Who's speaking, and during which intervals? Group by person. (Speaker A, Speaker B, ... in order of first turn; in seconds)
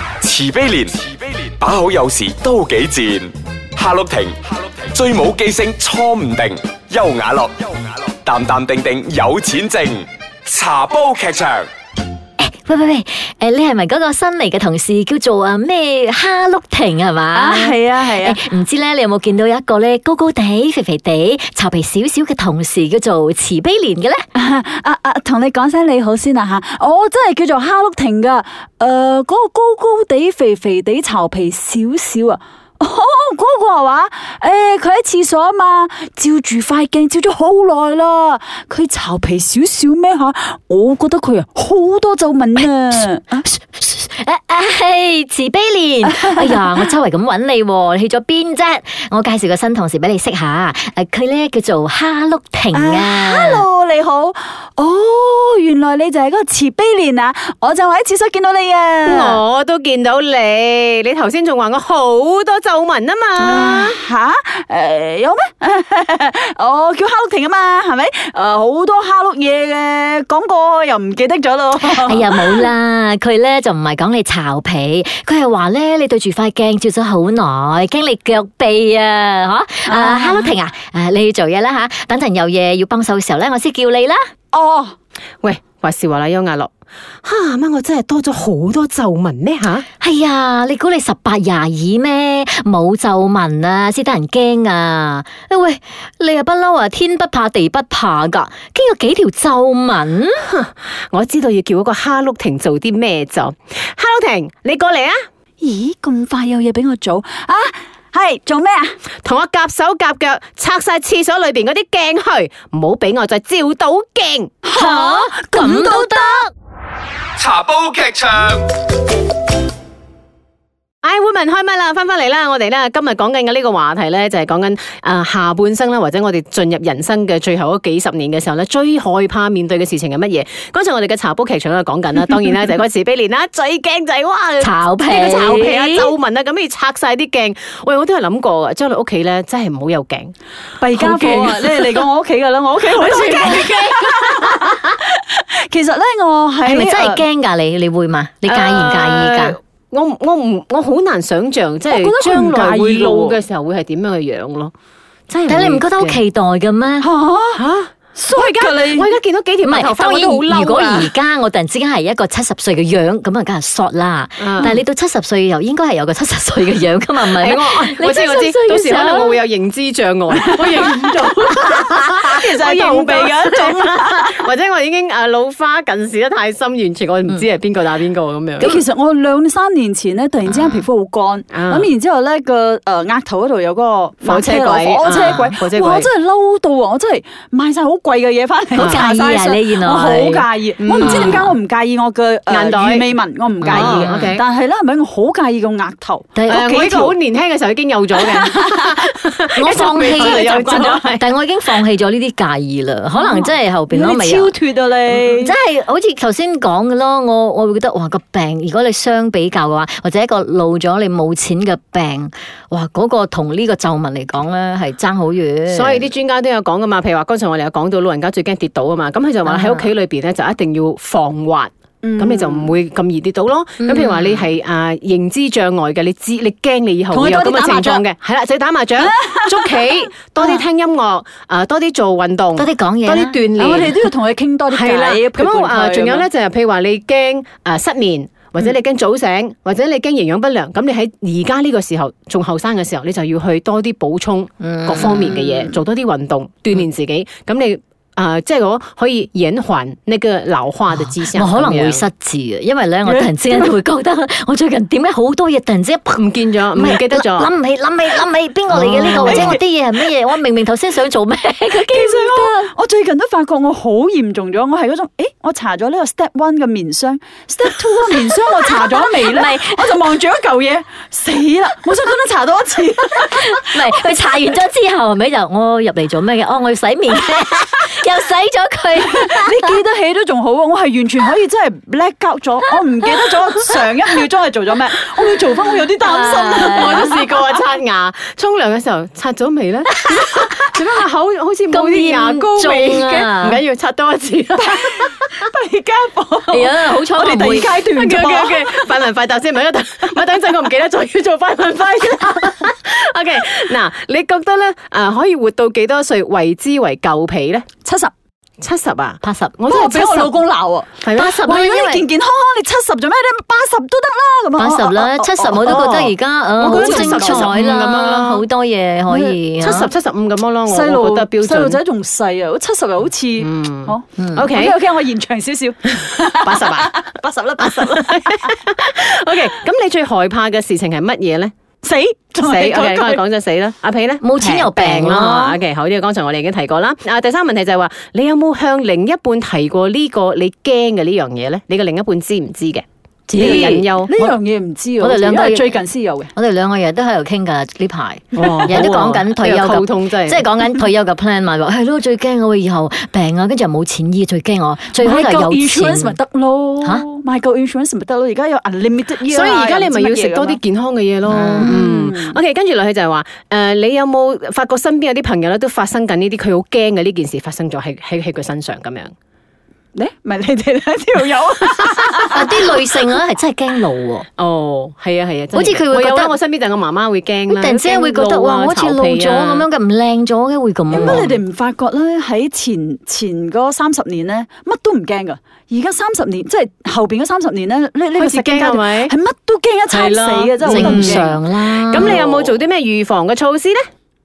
Speaker A: 0.2-11.7, 117.4-118.6
Speaker B: 12.4-24.2, 43.4-53.6, 71.8-84.2, 90.0-100.4, 114.7-116.5, 134.6-136.1, 140.9-141.9, 143.0-143.7, 146.7-149.6, 155.5-157.1, 159.6-169.4, 188.7-191.5, 193.6-194.3, 196.3-196.7, 199.6-204.5, 205.3-216.1, 219.4-219.9, 223.8-224.4, 232.6-233.4, 244.6-245.4, 251.2-262.7, 268.8-270.0, 273.2-279.7, 286.0-287.0, 291.7-293.6, 296.5-297.7, 309.2-309.6, 311.1-312.0, 314.6-319.9, 324.2-324.5, 334.2-335.6, 343.3-344.3, 345.0-345.7, 346.3-356.2, 361.3-361.8, 372.3-374.2, 375.5-376.4, 377.5-381.4, 390.6-392.6
Speaker C: 17.3-18.4, 24.3-43.4, 46.1-46.8, 52.7-59.4, 63.4-72.7, 79.8-80.5, 84.5-84.9, 105.6-109.0, 114.6-116.4, 140.8-147.2, 151.9-153.4, 157.0-157.6, 158.1-159.1, 170.5-170.8, 171.5-174.5, 178.6-197.2, 198.2-199.0, 199.7-201.1, 203.2-205.5, 222.0-222.8, 227.1-228.0, 229.0-230.6, 233.5-236.3, 245.3-245.7, 253.1-253.7, 259.0-259.6, 261.8-273.6, 279.1-287.2, 294.6-298.9, 307.8-308.1, 309.7-315.8, 316.7-317.5, 319.1-319.4, 320.6-328.6, 331.8-333.2, 343.3-346.3, 354.9-360.6, 361.5-362.4, 369.9-372.8, 380.9-391.4
Speaker D: 59.0-64.0, 85.4-86.7, 87.2-89.8, 100.4-105.2, 109.2-114.5, 121.0-140.3, 143.5-144.8, 148.5-154.7, 155.3-156.2, 157.5-161.1, 164.4-164.8, 167.2-178.8, 181.5-181.9, 184.2-186.1, 190.8-191.4, 192.5-193.1, 193.6-194.4, 196.5-201.2, 215.7-234.0, 234.7-252.1, 256.1-257.5, 258.7-259.6, 286.7-295.2, 297.5-307.7, 308.6-310.3, 311.0-311.5, 315.6-318.4, 319.6-321.8, 323.4-324.8, 325.9-326.9, 327.6-331.5, 332.4-344.1, 348.4-350.4, 359.2-369.1, 374.4-379.6, 388.1-389.1, 389.9-393.8